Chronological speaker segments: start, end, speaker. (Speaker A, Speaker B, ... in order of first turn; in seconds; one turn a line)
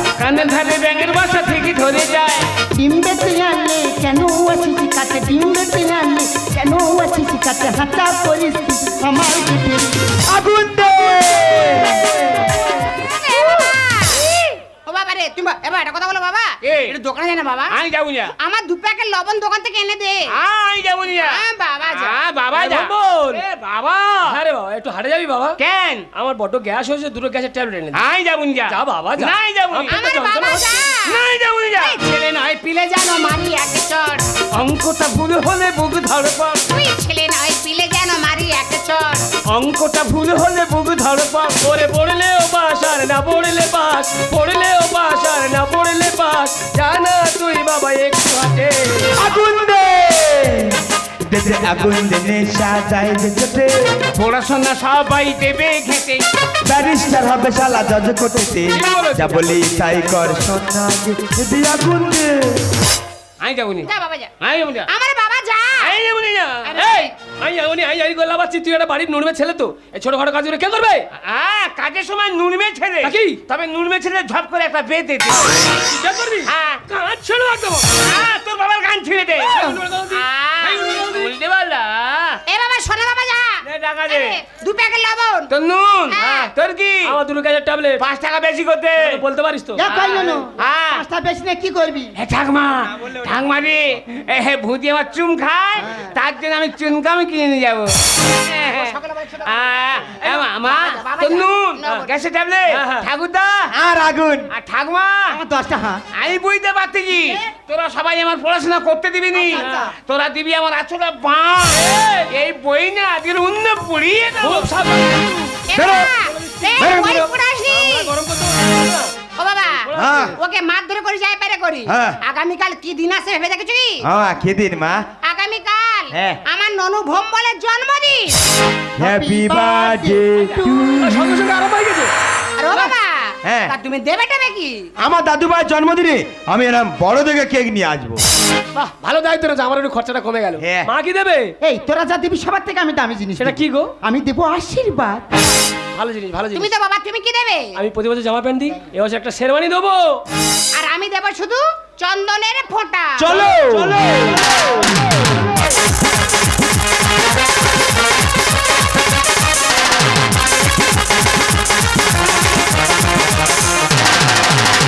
Speaker A: 0.2-2.5
Speaker B: 2.8-10.0
Speaker C: 10.3-12.6
Speaker D: 12.8-17.8
Speaker A: 16.6-17.0
Speaker A: 17.7-18.3
Speaker D: 18.4-20.3
Speaker A: 20.3-24.4
Speaker D: 21.1-22.2
Speaker E: 22.5-23.4
Speaker E: 24.3-25.6
Speaker A: 25.6-26.1
Speaker E: 26.1-28.0
Speaker A: 27.9-30.0
Speaker E: 28.7-30.7
Speaker D: 29.9-31.2
Speaker A: 31.1-32.0
Speaker D: 31.8-34.2
Speaker A: 34.5-36.7
Speaker D: 36.7-39.3
Speaker A: 39.5-41.6
Speaker E: 41.6-49.1
Speaker C: 49.1-53.7
Speaker A: 54.1-56.2
Speaker C: 56.6-62.6
Speaker E: 58.7-59.5
Speaker A: 63.4-64.9
Speaker D: 63.9-64.3
Speaker D: 64.9-65.9
Speaker E: 65.8-71.0
Speaker D: 66.7-67.0
Speaker A: 71.2-75.6
Speaker E: 73.0-73.4
Speaker E: 75.9-78.0
Speaker D: 76.5-76.8
Speaker A: 78.0-82.4
Speaker E: 79.5-81.3
Speaker D: 82.5-85.5
Speaker A: 83.6-84.4
Speaker A: 85.5-87.1
Speaker D: 86.1-86.5
Speaker E: 87.0-88.0
Speaker A: 88.0-89.2
Speaker E: 89.0-89.8
Speaker B: 89.8-92.1
Speaker A: 89.9-91.0
Speaker A: 92.2-103.7
Speaker D: 98.8-99.4
Speaker D: 100.6-102.1
Speaker E: 102.7-103.1
Speaker C: 103.7-104.5
Speaker A: 104.5-105.4
Speaker B: 105.3-106.0
Speaker A: 106.2-114.7
Speaker E: 109.5-109.9
Speaker B: 109.5-109.8
Speaker E: 111.8-112.3
Speaker E: 114.4-115.6
Speaker D: 115.7-118.1
Speaker C: 115.7-116.2
Speaker E: 116.3-117.1
Speaker C: 116.8-117.3
Speaker E: 117.7-119.2
Speaker D: 119.4-124.0
Speaker E: 119.7-120.4
Speaker C: 120.0-120.4
Speaker C: 121.9-122.2
Speaker C: 124.0-125.0
Speaker D: 125.2-128.4
Speaker C: 126.1-126.4
Speaker B: 129.0-130.9
Speaker C: 129.0-131.2
Speaker E: 130.8-132.1
Speaker D: 132.6-134.9
Speaker C: 133.4-133.8
Speaker C: 135.0-138.2
Speaker E: 138.8-141.5
Speaker C: 140.6-140.9
Speaker B: 141.6-145.3
Speaker E: 143.4-143.9
Speaker E: 145.9-146.7
Speaker D: 146.5-147.8
Speaker E: 147.8-150.2
Speaker D: 150.8-153.5
Speaker C: 153.2-154.9